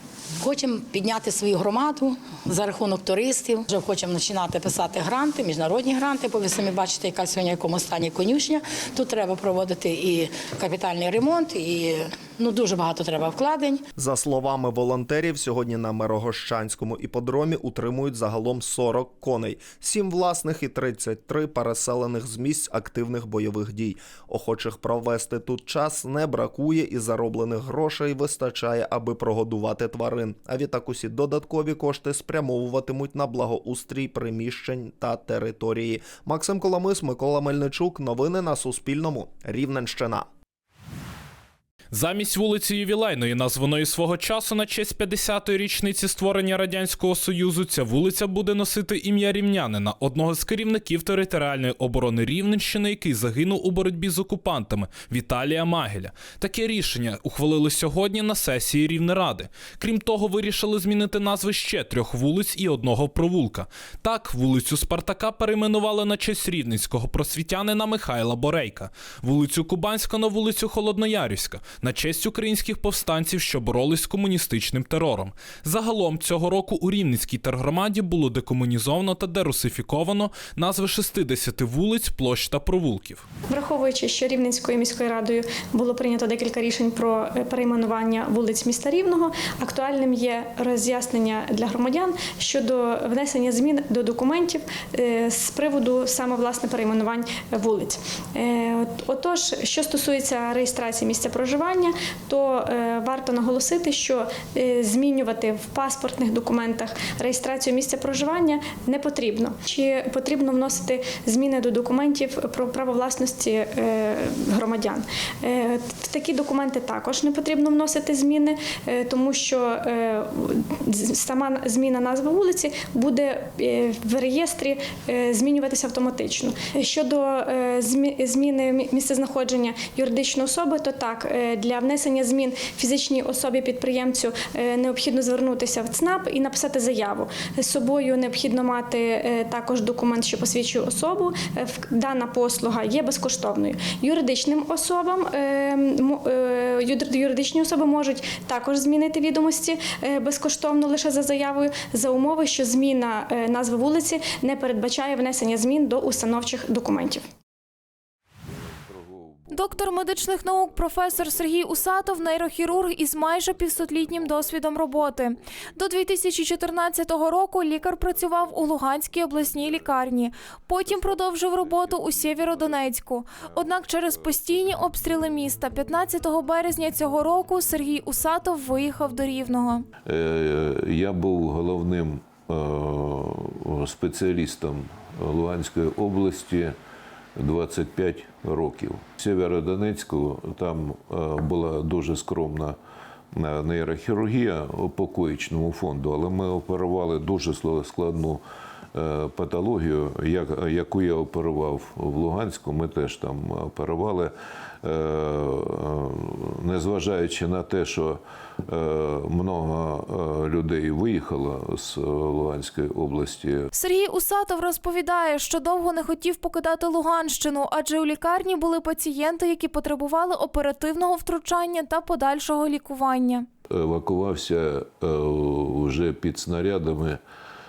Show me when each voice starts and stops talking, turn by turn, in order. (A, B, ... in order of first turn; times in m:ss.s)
0:00.4-0:13.8 A
0:14.0-0:40.3 B
0:41.9-1:23.2 C
1:23.5-2:37.2 D
2:38.8-2:45.6 E
2:39.5-2:59.8 F
2:48.3-2:50.1 E
2:50.9-2:52.8 E
2:53.4-2:54.4 E
3:00.0-3:06.7 E
3:07.4-3:12.8 E
3:13.3-3:18.4 E
3:18.9-3:33.7 E
3:33.7-3:43.4 F
3:43.7-3:47.2 E